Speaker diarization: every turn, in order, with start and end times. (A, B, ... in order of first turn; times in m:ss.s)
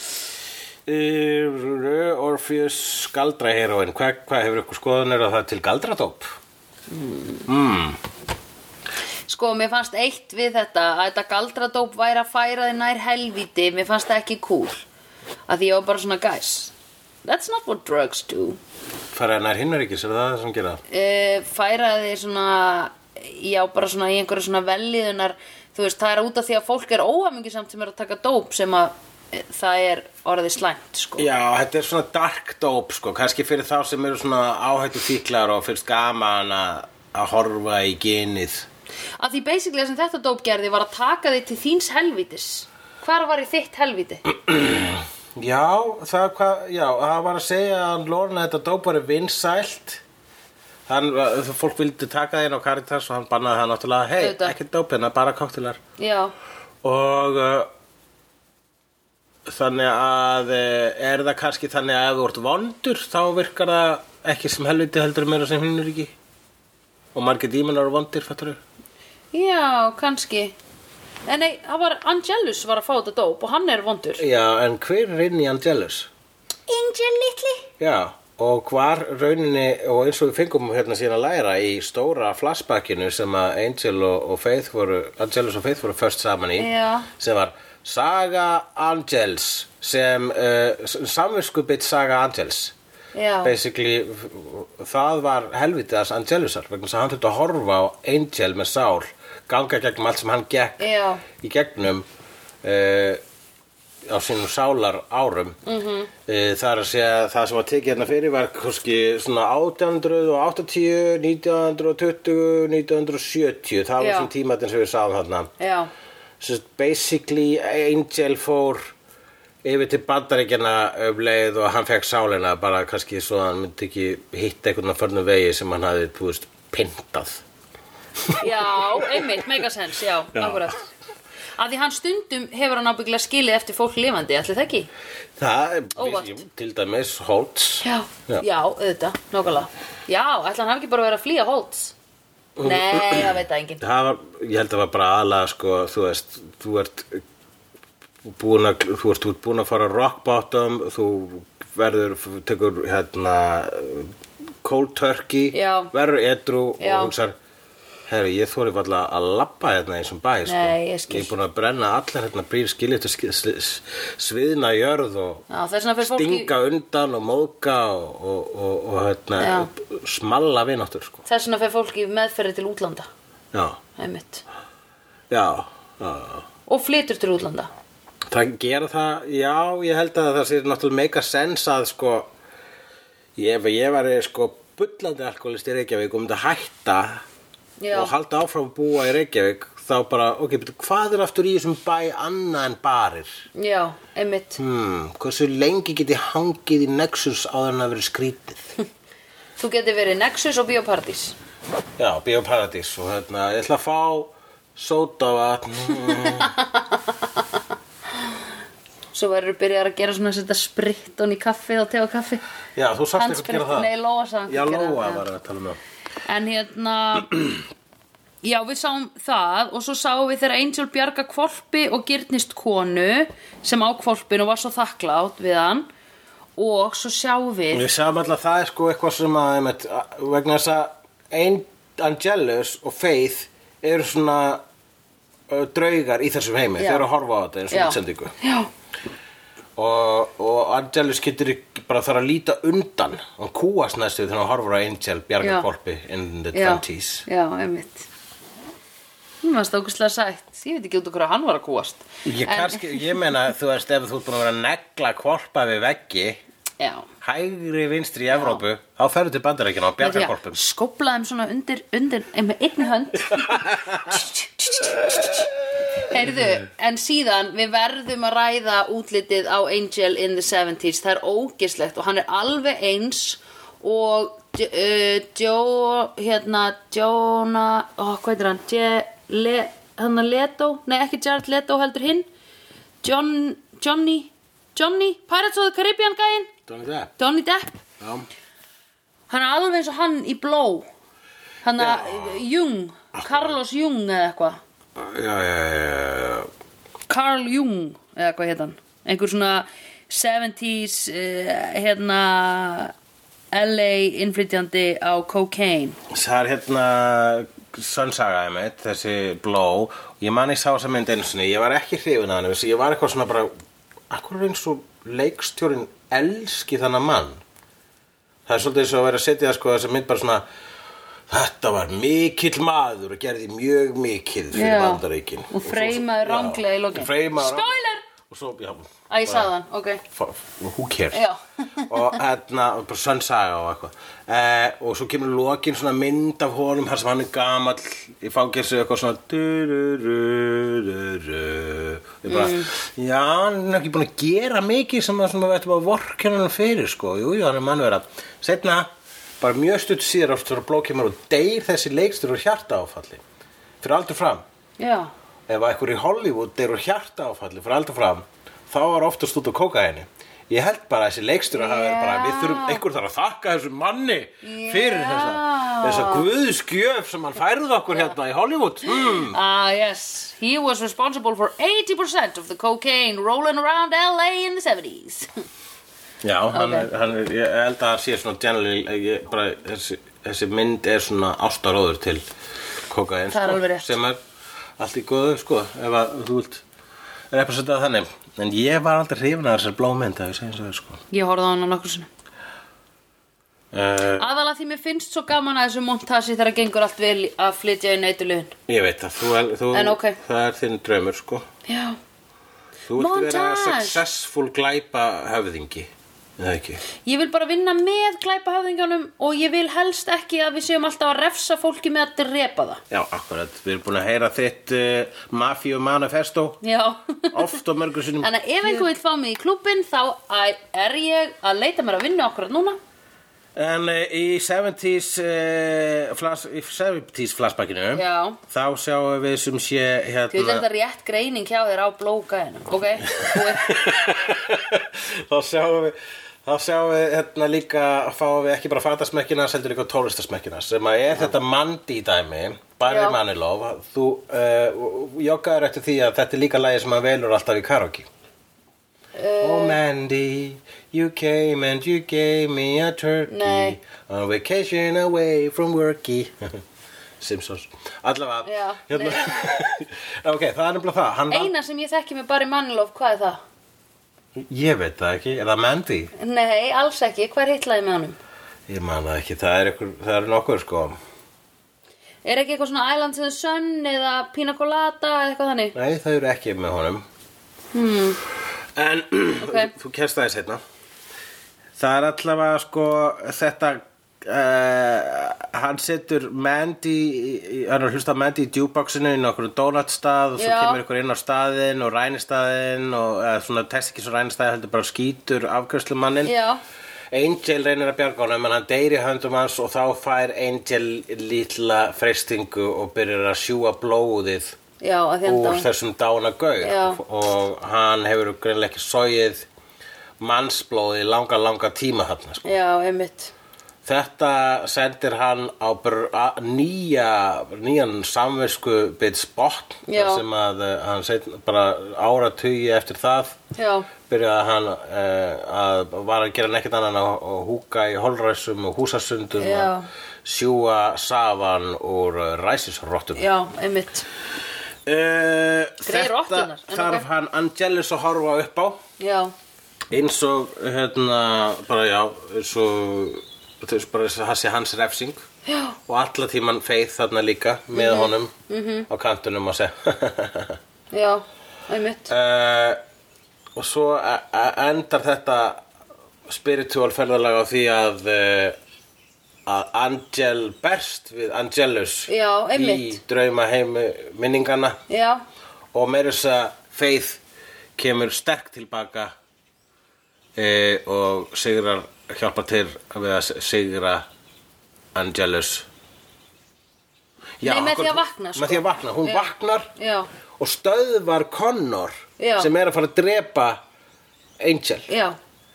0:00.8-0:06.3 A
0:06.9-0:07.4 B
0:07.5-0:08.0 A
0:09.3-0:14.8 B
0:15.5-0:16.7 B
0:17.2-0:18.6 B
0:19.1-0:20.8 A
0:20.9-0:31.3 B
0:31.2-0:38.7 A
0:39.2-0:44.2 B
0:44.4-0:50.0 A
0:50.9-0:55.8 A
0:54.2-0:54.5 B
0:56.0-0:56.3 B
0:56.8-0:57.7 A
0:59.5-1:06.1 A
1:07.1-1:08.6 A
1:09.3-1:10.5 B
1:11.3-1:14.2 B
1:14.2-1:16.1 A
1:16.7-1:17.7 B
1:17.8-1:32.7 A
1:26.6-1:27.1 B
1:33.1-1:33.5 B
1:33.4-1:42.0 A
1:40.8-1:41.2 B
1:42.6-1:43.2 A
1:44.1-1:45.6 A
1:45.6-1:46.1 B
1:46.2-1:55.5 A
1:54.0-1:54.3 B
1:55.6-1:55.9 B
1:56.4-1:58.9 A
1:59.6-2:07.4 A
2:08.2-2:09.4 A
2:08.4-2:10.8 B
2:10.3-2:10.7 A
2:11.6-2:14.9 B
2:15.4-2:18.4 A
2:16.0-2:16.4 B
2:17.8-2:21.9 B
2:22.6-2:27.2 A
2:22.6-2:23.8 B
2:28.2-2:37.4 A
2:35.5-2:35.9 B
2:36.8-2:37.1 B
2:38.1-2:45.4 A
2:40.4-2:41.3 B
2:45.5-2:46.5 B
2:46.0-2:51.2 A
2:49.4-2:49.7 B
2:51.2-2:53.1 B
2:53.5-2:53.8 A
2:54.0-2:54.4 B
2:55.3-2:56.5 A
2:56.7-2:57.7 B
2:58.3-3:02.3 A
3:03.4-3:07.2 A
3:07.8-3:08.1 B
3:07.9-3:13.3 A
3:13.6-3:14.6 B
3:14.6-3:18.7 A
3:19.6-3:21.4 B
3:22.0-3:26.5 A
3:26.4-3:26.8 B
3:29.1-3:32.4 B
3:32.8-3:33.9 A
3:33.2-3:35.2 B
3:34.5-3:35.8 A
3:36.3-3:37.4 B
3:38.4-3:45.9 B
3:46.6-3:47.8 B
3:47.7-3:54.6 A
3:55.5-3:58.3 A
3:56.8-3:57.0 B
3:57.7-3:58.7 B
3:59.8-4:07.2 A
4:05.4-4:05.7 B
4:06.5-4:08.1 B
4:09.4-4:13.2 B
4:12.2-4:16.4 A
4:16.8-4:17.0 B
4:17.2-4:20.6 A
4:18.3-4:18.6 B
4:20.0-4:25.5 B
4:23.5-4:24.1 A
4:26.1-4:42.2 B
4:43.0-4:46.5 B
4:46.7-4:47.1 A
4:47.2-4:47.8 B
4:48.0-4:48.3 A
4:49.3-4:50.9 B
4:51.6-4:54.6 B
4:51.8-4:52.4 A
4:53.1-4:53.5 A
4:55.0-4:56.5 A
4:57.1-5:02.9 B
5:03.5-5:06.0 B
5:06.1-5:13.5 A
5:14.1-5:17.4 A
5:18.4-5:20.4 A
5:21.3-5:29.5 A
5:24.5-5:28.0 B
5:29.1-5:30.0 B
5:30.1-5:31.2 A
5:31.1-5:32.2 B
5:31.9-5:48.9 A
5:42.3-5:42.7 B
5:49.4-5:53.2 A
5:53.8-5:54.4 A
5:54.8-5:55.1 B
5:55.5-6:09.4 A
6:01.5-6:02.8 B
6:04.4-6:06.2 B
6:09.1-6:15.3 B
6:16.2-6:22.2 A
6:16.5-6:16.9 B
6:22.9-6:24.2 A
6:23.3-6:23.9 B
6:24.8-6:26.6 A
6:27.3-6:31.0 A
6:31.1-6:32.1 B
6:33.7-6:34.3 A
6:34.2-6:38.5 B
6:38.7-6:41.5 A
6:39.7-6:40.2 B
6:41.6-6:42.0 B
6:42.9-6:46.8 A
6:43.0-6:44.0 B
6:47.0-6:52.8 B
6:52.9-6:56.6 A
6:56.6-6:57.5 B
6:57.3-6:58.9 A
6:58.2-7:02.8 B
7:03.6-7:10.6 A
7:07.9-7:08.4 B
7:10.3-7:13.8 B
7:13.1-7:28.1 A
7:22.8-7:23.2 B
7:29.2-7:29.8 B
7:29.4-7:36.6 A
7:33.3-7:33.8 B
7:37.2-7:41.5 A
7:38.4-7:39.5 B
7:41.3-7:43.4 B
7:44.4-7:46.1 A
7:46.2-7:48.2 B
7:48.7-7:51.0 A
7:52.2-7:55.7 B
7:55.7-7:57.0 A
7:57.7-7:58.2 B
7:58.7-8:00.6 A
7:59.4-7:59.7 B
8:01.8-8:16.3 A
8:10.4-8:10.8 B
8:16.2-8:16.6 B
8:17.1-8:24.6 A
8:24.8-8:25.7 B
8:25.2-8:29.5 A
8:26.6-8:27.0 B
8:30.2-8:32.4 A
8:32.4-8:33.3 B
8:33.8-8:43.4 A
8:39.9-8:40.2 B
8:43.6-8:43.9 B
8:44.1-8:49.7 A
8:49.4-8:49.9 B
8:50.2-8:53.3 A
8:53.1-8:54.0 B
8:54.8-8:58.8 A
8:55.8-8:57.0 B
8:59.0-8:59.3 B
8:59.9-9:05.2 A
9:05.4-9:05.8 B
9:05.9-9:08.3 A
9:07.7-9:08.9 B
9:08.9-9:10.6 A
9:10.9-9:12.1 B
9:12.1-9:12.8 A
9:13.6-9:15.6 A
9:16.3-9:18.6 A
9:19.4-9:24.8 A
9:22.1-9:23.0 B
9:24.9-9:25.2 B
9:25.7-9:27.2 A
9:27.8-9:29.1 A
9:30.4-9:34.0 A
9:34.9-9:35.6 A
9:37.4-9:39.7 A
9:37.4-9:40.1 B
9:40.4-9:43.6 A
9:42.2-9:42.5 B
9:44.4-9:44.9 A
9:44.9-9:45.2 B